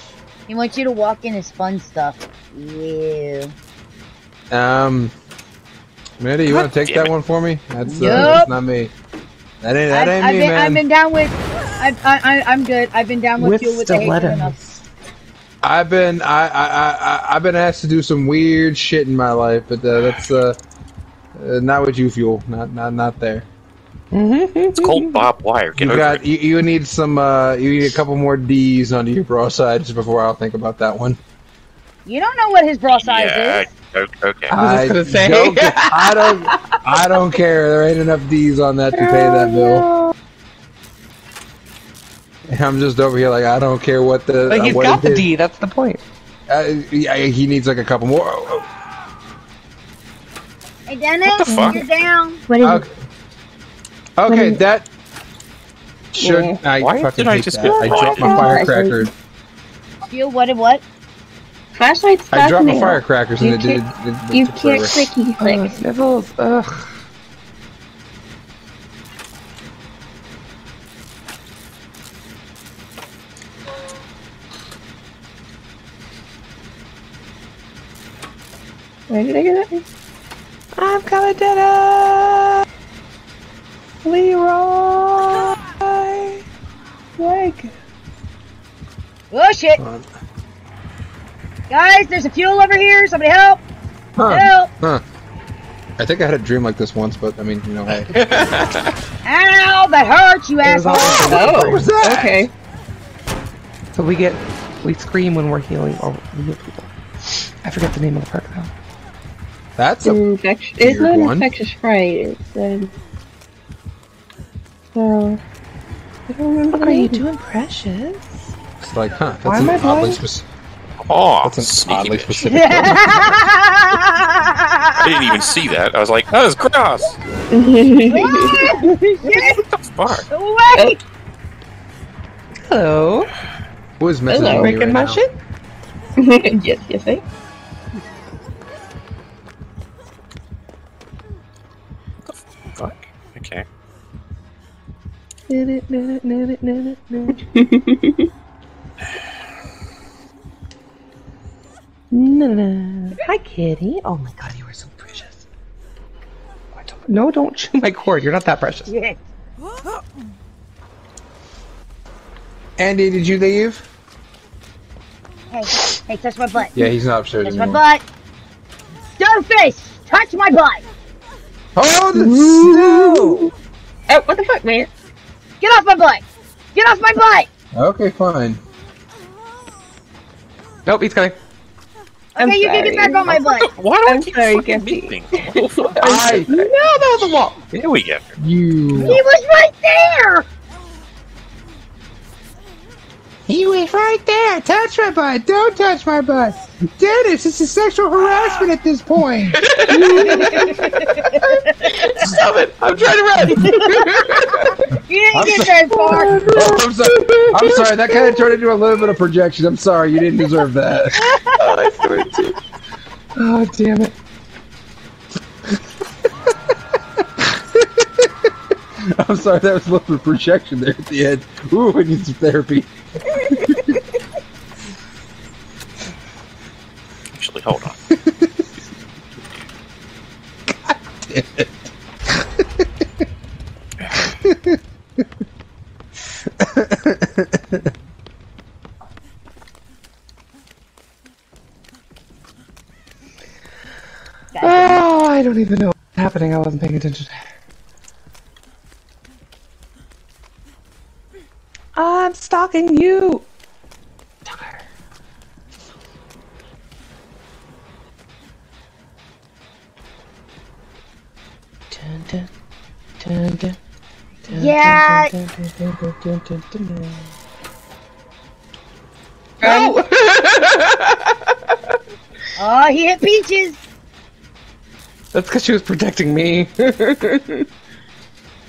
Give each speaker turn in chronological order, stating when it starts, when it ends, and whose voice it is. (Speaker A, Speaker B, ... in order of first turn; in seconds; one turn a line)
Speaker A: 0.5-3.5
Speaker B: 4.5-5.1
Speaker B: 6.2-8.9
Speaker C: 6.8-7.1
Speaker A: 7.9-8.5
Speaker D: 8.1-8.4
Speaker B: 9.6-10.8
Speaker A: 9.9-14.6
Speaker D: 13.4-14.8
Speaker B: 15.6-20.6
Speaker B: 21.3-23.4
Speaker D: 24.1-25.2
Speaker C: 24.8-26.2
Speaker B: 25.8-31.2
Speaker A: 32.0-33.7
Speaker C: 33.0-34.5
Speaker D: 34.5-36.8
Speaker B: 34.5-39.9
Speaker D: 38.9-40.1
Speaker B: 42.5-45.3
Speaker D: 44.5-46.0
Speaker B: 46.5-48.7
Speaker A: 50.9-52.4
Speaker C: 51.2-51.8
Speaker E: 51.5-51.8
Speaker E: 52.5-52.8
Speaker B: 52.6-52.9
Speaker B: 54.2-54.9
Speaker E: 54.3-54.6
Speaker B: 56.1-59.1
Speaker E: 56.2-56.6
Speaker C: 56.8-58.6
Speaker E: 57.6-59.1
Speaker A: 60.1-60.8
Speaker E: 61.7-65.8
Speaker B: 62.3-65.0
Speaker D: 65.4-66.9
Speaker E: 79.1-79.8
Speaker D: 80.8-82.6
Speaker D: 84.0-86.4
Speaker D: 87.2-87.8
Speaker A: 89.3-89.8
Speaker B: 89.8-90.1
Speaker A: 91.7-93.6
Speaker B: 94.2-95.0
Speaker A: 94.2-94.7
Speaker B: 96.0-98.1
Speaker D: 98.1-98.9
Speaker A: 99.2-101.4
Speaker D: 100.6-101.9
Speaker B: 101.0-102.5
Speaker E: 101.2-102.5
Speaker D: 103.9-106.9
Speaker D: 107.6-108.7
Speaker B: 109.8-110.2
Speaker E: 110.0-113.0
Speaker B: 110.8-111.5
Speaker E: 114.9-115.4
Speaker D: 116.3-118.5
Speaker E: 116.5-117.2
Speaker B: 118.8-120.5
Speaker D: 119.4-120.2
Speaker C: 121.0-122.4
Speaker B: 121.4-123.3
Speaker A: 122.4-125.1
Speaker C: 125.0-127.2
Speaker E: 127.5-128.9
Speaker A: 128.1-129.6
Speaker C: 129.2-130.3
Speaker A: 130.3-131.0
Speaker D: 132.6-133.3
Speaker B: 134.0-135.2
Speaker E: 134.3-134.7
Speaker D: 134.3-135.3
Speaker E: 136.2-137.2
Speaker C: 142.3-143.6
Speaker D: 145.5-147.4
Speaker E: 147.4-148.3
Speaker D: 152.1-155.4
Speaker D: 156.7-158.9
Speaker A: 158.8-159.2
Speaker B: 162.8-163.8
Speaker A: 165.5-166.8
Speaker B: 166.8-167.8
Speaker A: 167.4-168.0
Speaker A: 169.2-170.8
Speaker B: 171.8-173.5
Speaker E: 172.1-173.5
Speaker E: 174.1-174.9
Speaker A: 175.6-176.2
Speaker A: 176.7-177.5
Speaker B: 177.7-178.6
Speaker D: 180.8-181.3
Speaker A: 182.3-183.7
Speaker E: 182.4-183.3
Speaker C: 183.3-186.3
Speaker E: 184.0-186.8
Speaker B: 186.0-186.5
Speaker D: 186.4-187.6
Speaker C: 187.7-188.3
Speaker B: 188.4-189.2
Speaker A: 188.9-190.5
Speaker B: 193.5-200.3
Speaker D: 199.6-204.9
Speaker E: 199.9-200.7
Speaker A: 200.1-202.1
Speaker A: 203.5-206.4
Speaker B: 205.3-211.3
Speaker E: 205.9-207.5
Speaker D: 206.1-208.4
Speaker A: 211.2-211.8
Speaker D: 211.4-212.6
Speaker D: 213.3-214.1
Speaker B: 217.4-224.0
Speaker C: 227.3-228.0
Speaker B: 228.1-228.7
Speaker B: 230.7-233.1
Speaker B: 234.3-235.2
Speaker B: 236.4-237.9
Speaker A: 244.5-245.0
Speaker D: 244.6-247.3
Speaker D: 251.9-253.4
Speaker D: 254.4-254.8
Speaker D: 261.9-262.5
Speaker D: 263.2-263.8
Speaker D: 264.4-267.3
Speaker A: 264.5-265.3
Speaker D: 269.6-271.9
Speaker A: 269.6-269.9
Speaker A: 272.6-273.8
Speaker D: 275.3-277.7